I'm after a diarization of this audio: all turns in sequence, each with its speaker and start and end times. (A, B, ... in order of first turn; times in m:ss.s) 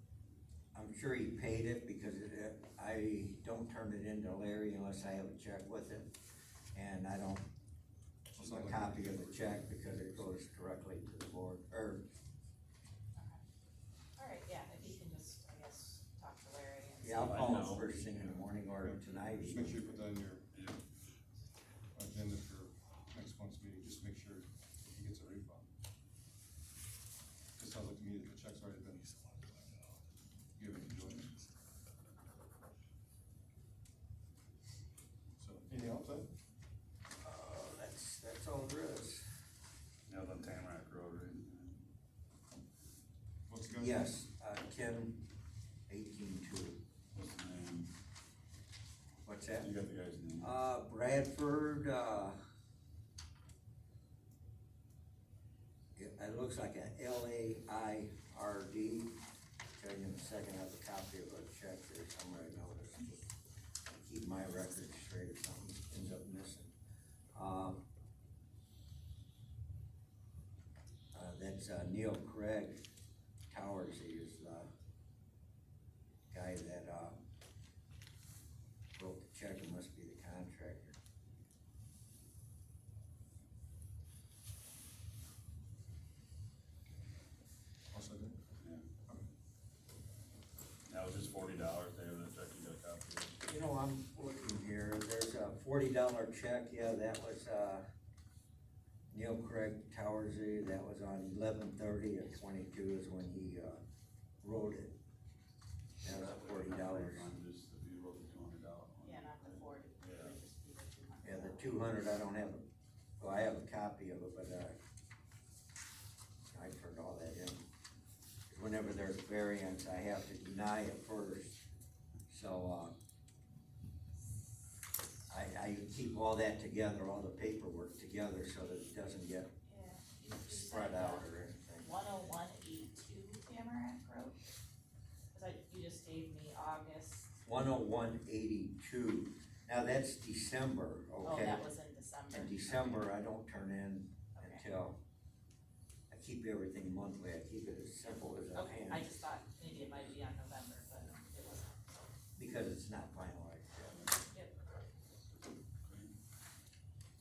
0:00.7-0:06.1 A
0:06.7-0:07.4 A
0:08.3-0:10.3 B
0:08.3-0:12.0 A
0:13.2-0:13.4 C
0:14.2-0:17.8 C
0:17.0-0:19.8 A
0:17.2-0:18.4 D
0:18.8-0:20.5 B
0:20.5-0:20.8 D
0:21.9-0:25.7 B
0:27.6-0:29.5 B
0:30.6-0:31.4 B
0:35.4-0:36.3 B
0:37.2-0:39.2 A
0:40.1-0:41.8 D
0:43.5-0:44.1 B
0:43.8-0:45.2 A
0:45.9-0:46.8 A
0:47.1-0:47.9 D
0:49.2-0:49.7 A
0:49.6-0:50.5 D
0:50.4-0:52.4 A
0:56.0-0:59.1 A
0:59.7-1:03.2 A
1:03.9-1:06.7 A
1:07.3-1:07.8 A
1:11.1-1:12.8 A
1:13.5-1:14.7 A
1:16.3-1:17.2 A
1:19.0-1:21.0 A
1:27.9-1:28.3 B
1:30.8-1:33.4 D
1:33.4-1:37.8 A
1:39.1-1:43.8 A
1:44.4-1:45.0 A
1:46.0-1:47.3 A
1:46.0-1:50.4 D
1:49.0-1:51.8 C
1:51.2-1:52.6 A
1:53.2-1:54.8 A
1:56.5-1:57.6 A
1:58.5-2:01.6 A
2:02.3-2:02.9 A
2:05.3-2:09.5 A
2:09.6-2:11.3 C
2:10.4-2:11.9 A
2:11.8-2:14.4 C
2:15.3-2:17.3 C
2:17.4-2:21.6 A
2:21.2-2:23.1 C
2:22.3-2:25.0 A
2:24.3-2:24.6 C
2:26.1-2:29.0 A
2:28.5-2:32.1 C
2:32.4-2:34.0 A
2:34.1-2:34.5 C
2:35.8-2:36.1 D